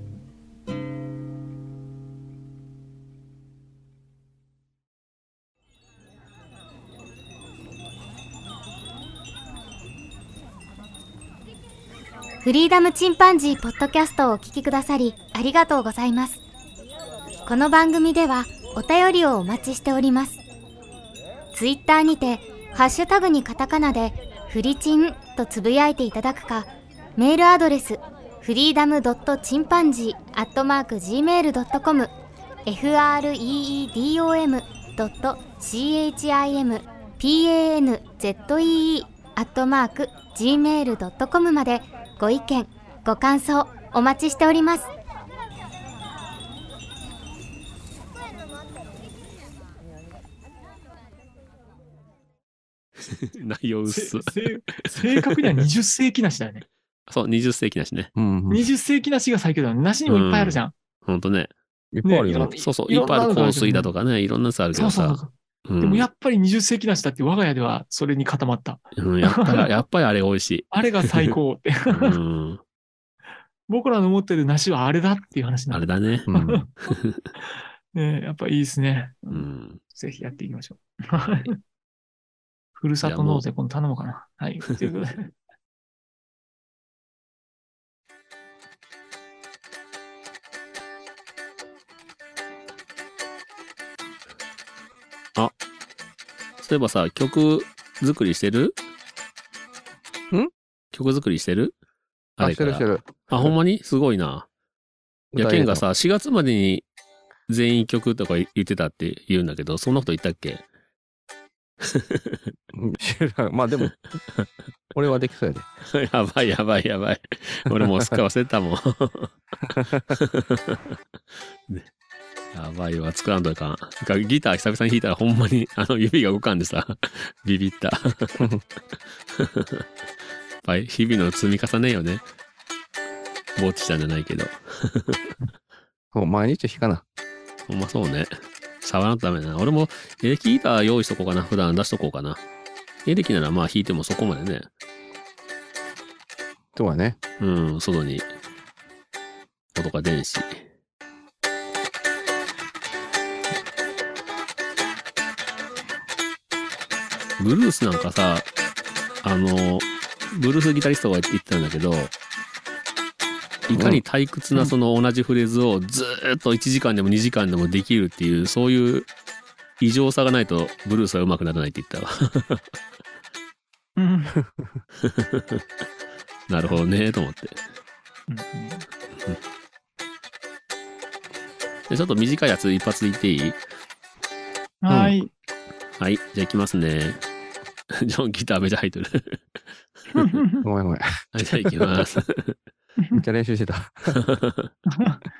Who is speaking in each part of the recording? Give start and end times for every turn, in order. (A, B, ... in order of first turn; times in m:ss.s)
0:12.4-0:16.4 A
0:17.4-0:20.4 A
0:21.5-0:32.1 A
0:32.6-0:44.9 A
0:53.0-0:55.6 B
0:53.9-0:56.6 C
0:57.1-0:58.1 B
0:58.1-0:58.7 D
0:58.5-1:00.7 C
1:00.1-1:01.5 B
1:01.9-1:02.5 D
1:02.0-1:03.9 C
1:02.6-1:06.1 B
1:04.7-1:09.7 C
1:09.0-1:11.4 B
1:10.7-1:12.2 C
1:11.9-1:12.6 B
1:13.7-1:16.7 C
1:15.7-1:16.3 B
1:16.3-1:16.7 D
1:16.8-1:17.3 B
1:17.9-1:21.6 C
1:19.3-1:19.8 B
1:21.2-1:21.5 B
1:22.8-1:25.3 C
1:23.0-1:23.4 B
1:36.6-1:38.8 B
1:40.9-1:41.7 B
1:42.4-1:44.5 B
1:42.4-1:43.5 D
1:45.3-1:45.8 D
1:45.4-1:46.8 B
1:47.5-1:50.6 B
1:51.8-1:52.5 B
1:52.7-1:53.9 D
1:53.8-1:54.4 B
1:54.9-1:55.7 D
1:55.9-1:59.3 B
1:57.8-1:58.1 D
1:59.7-2:00.1 D
2:00.1-2:01.0 B
2:02.5-2:08.4 B
2:09.4-2:09.8 B
2:10.6-2:12.2 B
2:13.6-2:15.3 B
2:16.1-2:17.0 D
2:17.7-2:22.4 B
2:23.0-2:24.7 B
2:26.7-2:27.2 D
2:27.4-2:28.2 B
2:29.7-2:30.6 B
2:37.4-2:38.5 B
2:39.2-2:42.1 B
2:43.7-2:49.1 B
2:43.7-2:44.0 D
2:49.8-2:52.6 B
2:54.0-2:54.4 C
2:55.0-2:55.6 B
2:56.5-2:57.6 B
2:58.3-2:58.8 C
3:01.9-3:03.6 B
3:04.8-3:05.3 C
3:04.9-3:05.2 D
3:06.0-3:07.2 B
3:07.9-3:09.4 B
3:10.1-3:10.6 C
3:10.6-3:12.0 D
3:11.3-3:12.5 B
3:13.1-3:14.2 D
3:14.2-3:14.7 B